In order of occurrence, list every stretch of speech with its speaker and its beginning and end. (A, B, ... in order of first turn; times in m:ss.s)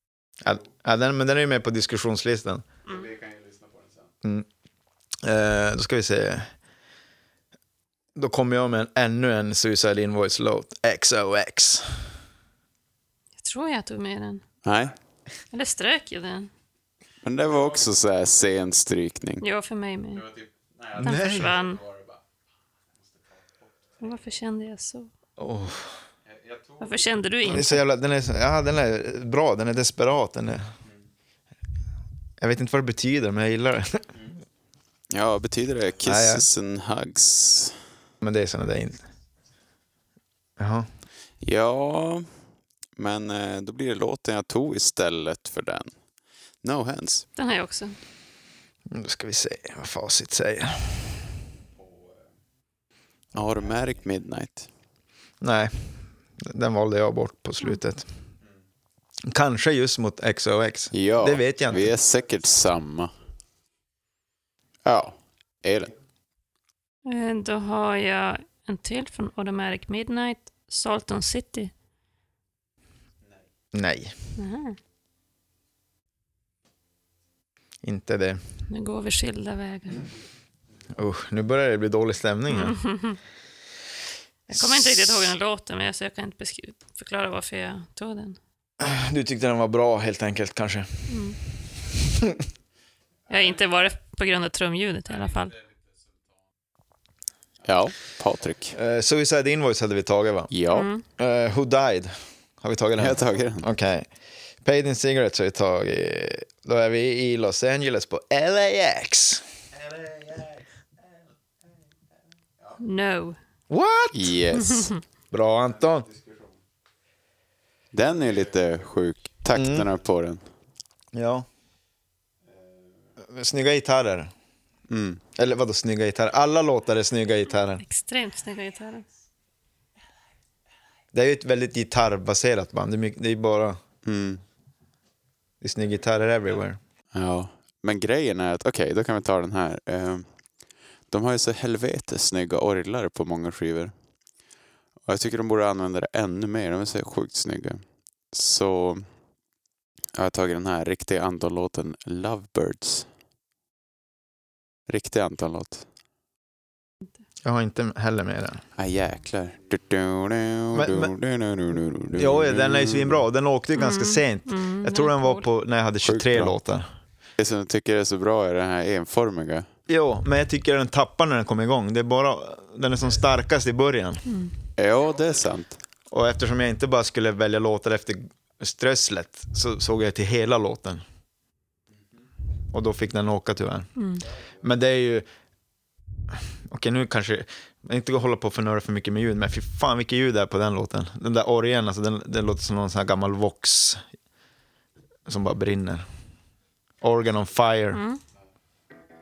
0:00.4-0:02.6 A
0:05.2-0:06.5 A
0:08.2-0:12.0 A
0:13.4-0:14.4 B
0:14.6-0:14.9 C
0:15.5-0:16.5 B
0:17.2-0:19.4 C
0:19.4-0:20.2 B
0:21.0-0:21.5 A
0:21.0-0:21.8 B
0:24.0-0:25.1 B
0:25.4-0:25.9 A
0:26.8-0:27.8 B
0:27.4-0:30.7 A
0:32.4-0:34.0 A
0:35.1-0:37.8 C
0:36.0-0:36.4 A
0:38.2-0:39.0 A
0:40.6-0:40.9 A
0:41.4-0:42.3 C
0:43.0-0:45.9 C
0:46.6-0:47.2 C
0:47.4-0:48.0 B
0:48.9-0:51.2 A
0:53.3-0:54.7 C
0:55.4-0:58.1 A
0:59.3-1:01.9 A
1:00.9-1:03.1 C
1:04.8-1:06.0 C
1:07.0-1:11.7 B
1:13.7-1:14.1 A
1:14.4-1:14.8 B
1:17.8-1:18.4 A
1:18.7-1:20.0 B
1:20.9-1:22.8 A
1:22.5-1:23.2 B
1:24.5-1:28.4 B
1:24.5-1:25.3 A
1:28.8-1:31.1 A
1:31.1-1:31.4 B
1:32.1-1:32.4 A
1:33.3-1:35.6 B
1:37.6-1:38.7 C
1:38.7-1:40.5 A
1:40.5-1:40.9 C
1:40.7-1:41.0 B
1:41.0-1:44.1 A
1:43.0-1:43.7 C
1:44.6-1:49.4 A
1:52.8-1:53.4 B
1:53.7-1:54.3 A
1:54.1-1:54.9 C
1:54.5-1:55.0 B
1:55.3-1:56.1 A
1:57.9-2:00.4 C
1:59.5-1:59.9 A
2:01.1-2:01.4 A
2:03.2-2:04.3 A
2:04.9-2:05.2 C
2:05.4-2:07.8 A
2:07.8-2:09.0 B
2:11.1-2:13.8 A
2:14.0-2:14.4 C
2:15.6-2:16.8 A
2:17.1-2:20.3 C
2:21.1-2:23.9 C
2:25.0-2:29.0 C
2:30.1-2:33.1 C
2:34.9-2:35.8 C
2:37.4-2:38.6 A
2:38.8-2:43.2 C
2:40.7-2:41.1 A
2:42.1-2:46.9 A
2:43.7-2:45.4 B
2:46.0-2:46.5 C
2:47.4-2:49.7 C
2:49.9-2:54.2 A
2:54.2-2:54.5 B
2:54.8-2:55.8 C
2:56.1-3:01.0 A
3:02.7-3:03.9 A
3:04.0-3:04.2 B
3:04.6-3:05.3 A
3:06.7-3:14.0 A
3:15.3-3:16.0 A
3:17.0-3:18.0 A
3:17.9-3:18.2 B